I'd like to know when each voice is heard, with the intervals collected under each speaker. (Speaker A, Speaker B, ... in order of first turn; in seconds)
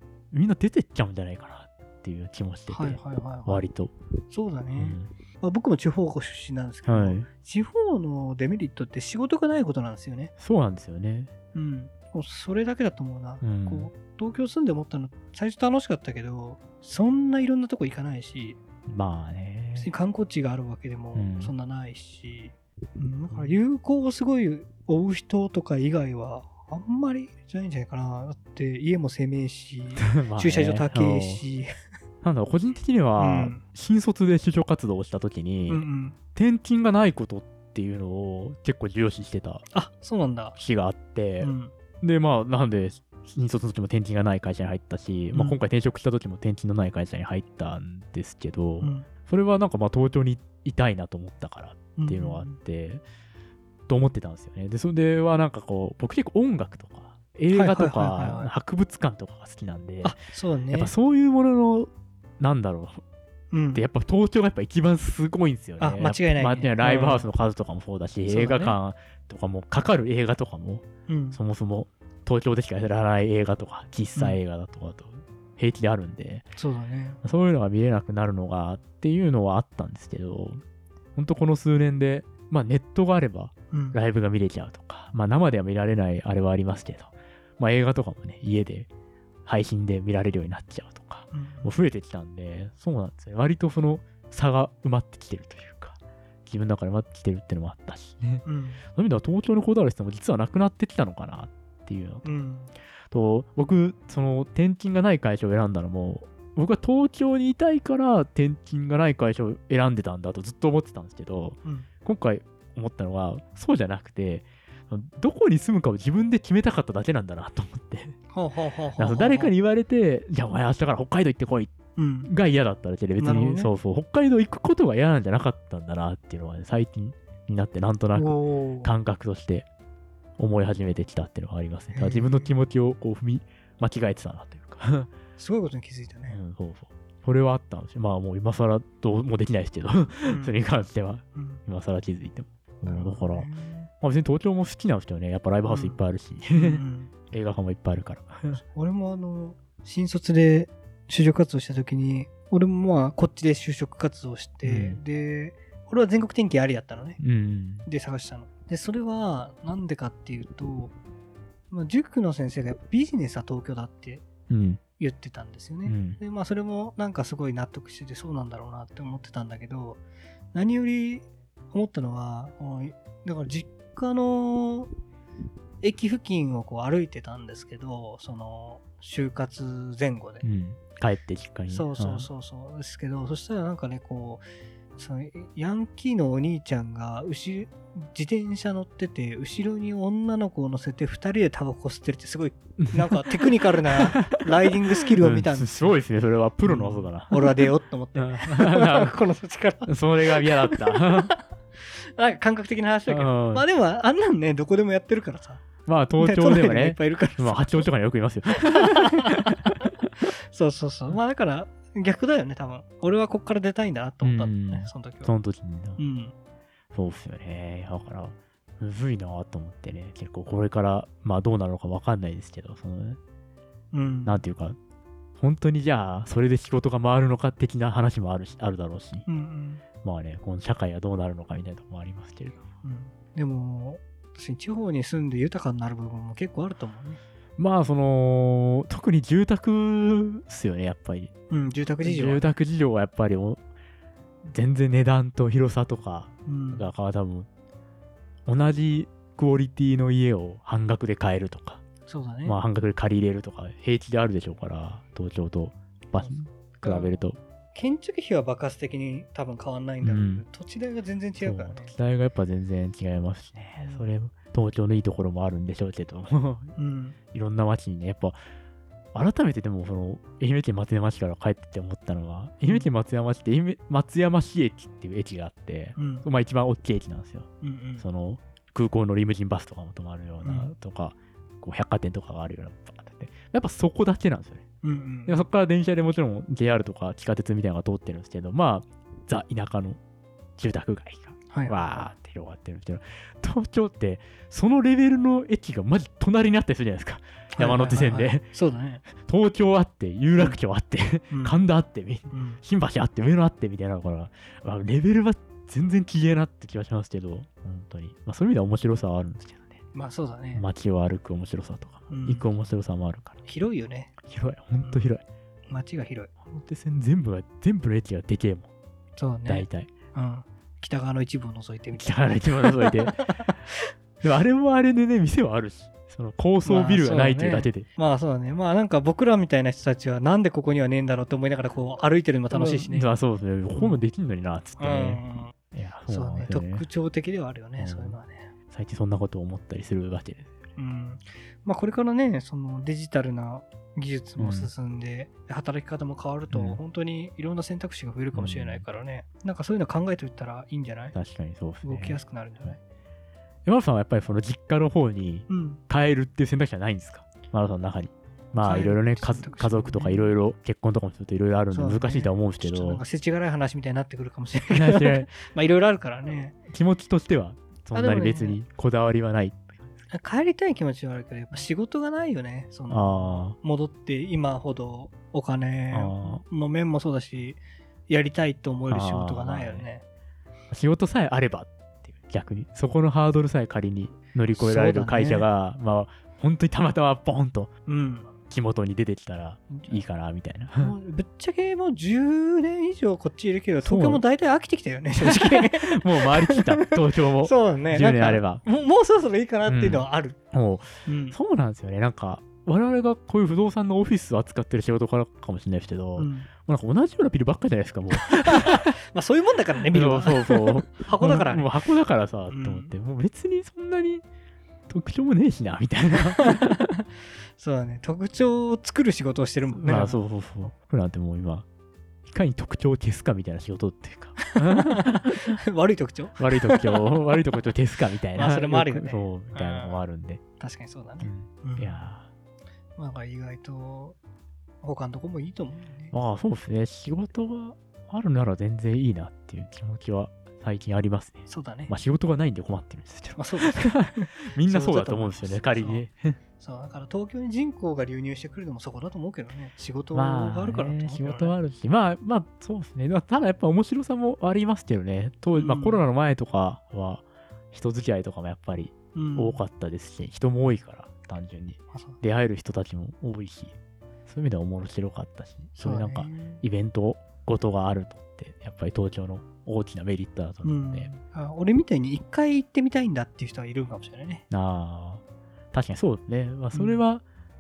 Speaker A: 0.3-3.9, 4.8-5.1, 6.9-7.3, 10.4-11.3, 13.4-13.9, 18.9-19.9, 21.1-21.5, 23.3-23.6, 30.0-31.4, 32.2-39.7, 40.5-41.5, 42.0-53.0, 53.9-60.2, 60.7-63.0, 63.7-76.5, 77.2-80.6, 81.2-88.9, 89.5-102.3, 103.1-118.2, 119.0-121.7, 122.2-129.7, 130.4-135.1, 136.3-143.5, 144.0-148.6, 154.6-155.0, 157.2-157.9, 164.5-164.8, 165.9-166.2, 180.4-182.3, 192.8-197.6, 198.2-199.2, 199.9-201.3, 203.1-203.7, 205.9-209.8, 214.2-216.0, 216.9-223.2, 224.3-224.8, 225.4-229.3, 230.0-232.6, 237.6-241.3, 242.0-243.6, 244.4-247.5, 248.5-251.8, 252.4-257.4, 260.0-260.4, 261.4-266.8, 267.3-268.4, 269.1-277.5, 278.0-284.6, 285.3-290.0, 290.6-298.5, 299.1-309.8, 310.5-313.5, 314.2-315.2, 316.4-318.7, 319.5-319.9, 322.0-323.4, 324.2-327.9, 332.5-336.9, 337.8-338.2, 338.7-340.5, 344.4-344.7, 346.5-346.8, 348.3-348.9, 351.1-352.7, 353.6-363.0, 364.7-365.3, 366.7-369.9, 372.9-373.6, 375.9-376.4, 378.9-379.9, 380.7-387.7, 388.5-390.9, 393.8-394.2, 395.1-398.6, 399.7-408.9, 409.9-414.2, 414.9-416.9, 419.7-421.7, 422.3-425.6, 426.4-430.4, 431.2-432.3, 436.1-446.4, 450.1-463.8, 464.3-471.1, 474.5-477.2
Speaker B: 2.7-3.6, 4.3-10.3, 11.5-18.6, 19.8-31.7, 33.2-33.6, 35.7-36.2, 39.7-40.6, 41.4-41.7, 45.3-45.6, 48.8-49.1, 52.0-52.6, 57.5-58.5, 60.0-60.9, 63.5-63.8, 65.8-67.3, 68.3-68.8, 71.1-71.4, 76.6-77.2, 83.7-84.0, 91.3-91.7, 98.5-98.8, 102.2-102.7, 118.3-119.5, 122.0-122.3, 123.2-123.7, 128.1-128.9, 131.9-132.6, 135.4-136.4, 140.3-140.5, 141.3-141.6, 142.9-143.9, 145.7-146.0, 146.5-147.1, 148.5-157.2, 157.9-160.9, 161.7-164.3, 165.0-170.0, 170.5-174.9, 175.8-180.4, 181.7-184.4, 185.0-196.0, 196.6-201.4, 201.9-205.7, 206.2-207.9, 208.7-209.6, 210.5-215.3, 216.0-216.3, 223.9-224.4, 229.3-229.8, 232.8-237.2, 241.5-242.4, 246.5-246.9, 252.1-252.6, 256.2-257.2, 257.8-261.9, 263.8-264.1, 266.8-267.2, 276.0-276.3, 277.6-278.1, 280.4-280.7, 284.8-285.4, 291.5-291.8, 297.6-299.0, 301.3-301.6, 302.3-302.6, 309.9-310.6, 312.1-312.5, 313.5-314.1, 314.8-315.1, 315.7-316.3, 319.2-323.8, 326.6-333.1, 333.8-334.0, 334.8-335.6, 336.1-338.5, 340.8-351.2, 351.8-352.8, 355.5-355.8, 358.6-360.3, 361.7-366.6, 367.9-368.6, 370.1-380.0, 384.6-385.5, 387.9-388.3, 389.7-390.0, 390.8-400.4, 401.1-401.4, 406.2-406.5, 408.3-411.7, 412.5-412.9, 416.3-416.8, 417.6-420.3, 424.6-427.3, 428.4-430.0, 430.6-432.1, 433.0-434.2, 434.8-436.1, 441.5-441.9, 443.4-446.1, 446.6-451.5, 455.5-456.0, 459.1-459.6, 461.9-462.2, 465.8-466.6, 470.6-474.4, 476.7-477.0